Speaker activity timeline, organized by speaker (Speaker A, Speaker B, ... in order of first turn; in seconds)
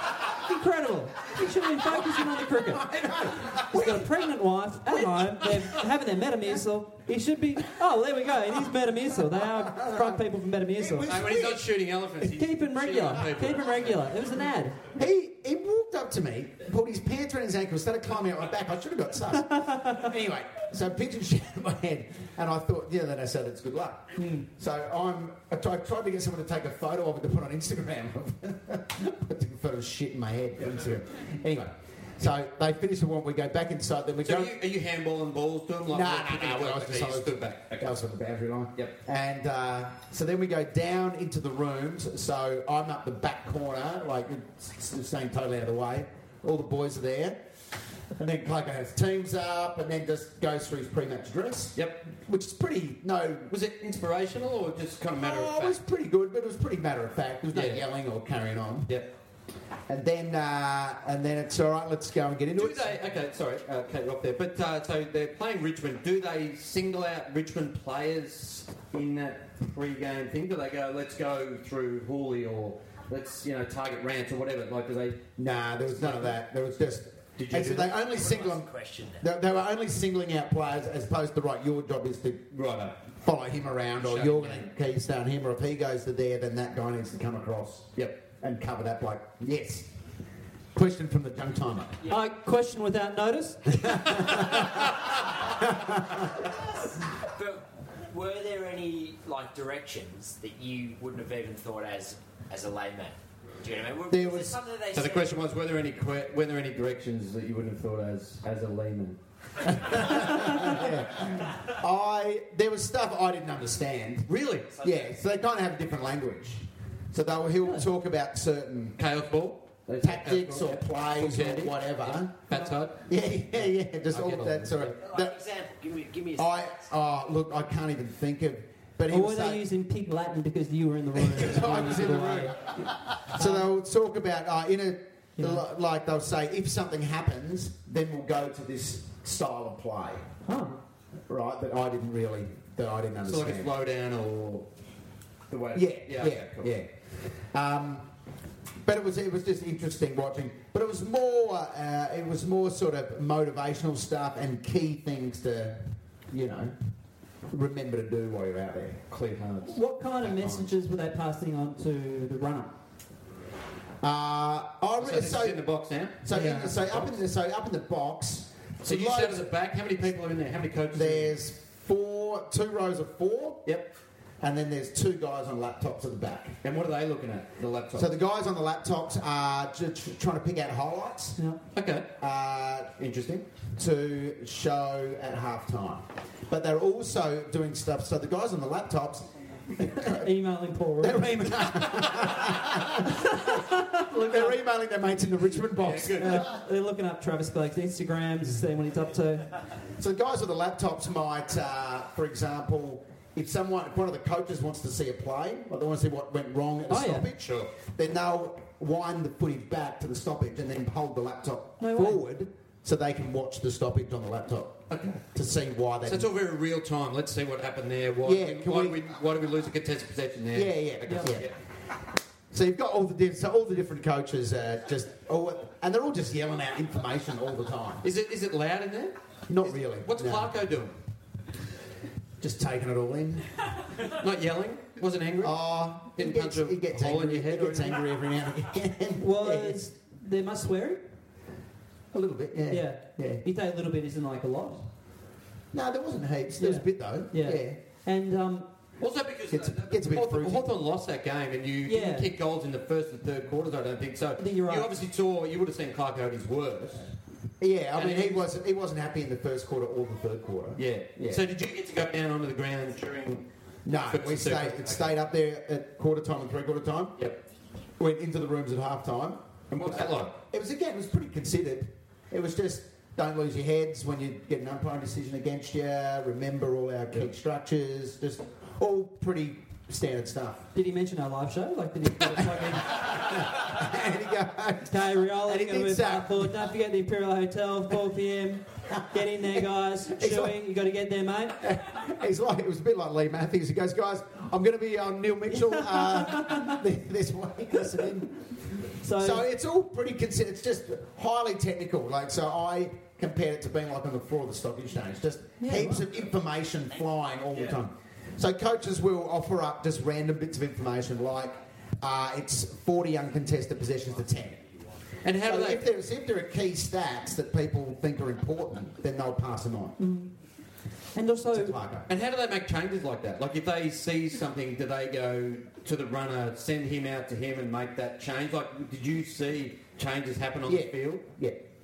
Speaker A: 0.4-11.1, 12.2-14.8, 24.2-24.5, 92.1-93.9, 110.4-110.6, 129.1-133.7, 135.4-135.6, 140.5-140.8, 159.7-162.7, 190.0-191.4, 193.1-194.6, 196.2-199.5, 206.9-207.3, 211.8-212.2, 239.2-241.0, 242.7-244.9, 246.6-248.7, 251.8-252.3, 254.4-254.9, 280.7-283.0, 284.9-291.6, 295.5-296.8, 299.0-299.4, 305.6-306.1, 320.0-320.3, 321.1-321.8
Speaker B: 2.6-4.2, 9.6-10.2, 10.8-11.7, 14.9-34.6, 35.9-47.4, 48.2-53.5, 55.2-59.0, 59.9-62.9, 75.4-82.5, 83.1-89.9, 90.7-92.0, 93.8-94.7, 95.6-96.3, 104.1-104.6, 109.7-119.0, 120.0-122.3, 123.0-125.4, 126.4-129.7, 131.2-132.8, 133.3-140.3, 141.3-143.7, 145.7-148.1, 148.8-156.8, 157.5-159.0, 164.0-165.6, 166.2-169.5, 170.9-173.8, 174.4-176.6, 177.9-181.4, 182.2-182.9, 183.8-190.3, 191.0-196.5, 200.0-216.3, 218.2-219.0, 220.5-221.5, 222.5-228.1, 229.5-230.5, 232.4-233.5, 235.4-239.8, 242.1-243.4, 245.7-247.8, 249.5-250.7, 257.6-261.4, 263.9-267.2, 268.0-280.7, 282.4-286.6, 289.2-290.6, 291.6-298.4, 299.1-314.6, 315.4-320.0, 321.5-322.1, 330.7-331.6
Speaker C: 11.0-14.1, 34.2-37.9, 51.8-52.0, 53.5-55.8, 57.5-57.9, 62.5-75.3, 76.0-76.3, 77.4-78.0, 82.5-83.0, 84.0-84.7, 88.0-88.2, 104.9-109.2, 114.3-114.7, 119.0-123.0, 123.6-125.0, 143.2-144.7, 145.5-146.7, 159.1-159.8, 165.0-167.2, 168.8-171.3, 176.6-178.1, 181.7-182.1, 183.0-183.5, 195.7-196.5, 207.4-207.7, 214.9-215.2, 216.1-221.5, 228.0-231.0, 234.1-238.1, 249.0-257.1, 257.9-258.4, 260.8-265.2, 269.7-270.4, 315.2-315.9, 322.1-331.2
Speaker D: 78.0-79.3, 97.3-105.4, 125.0-126.8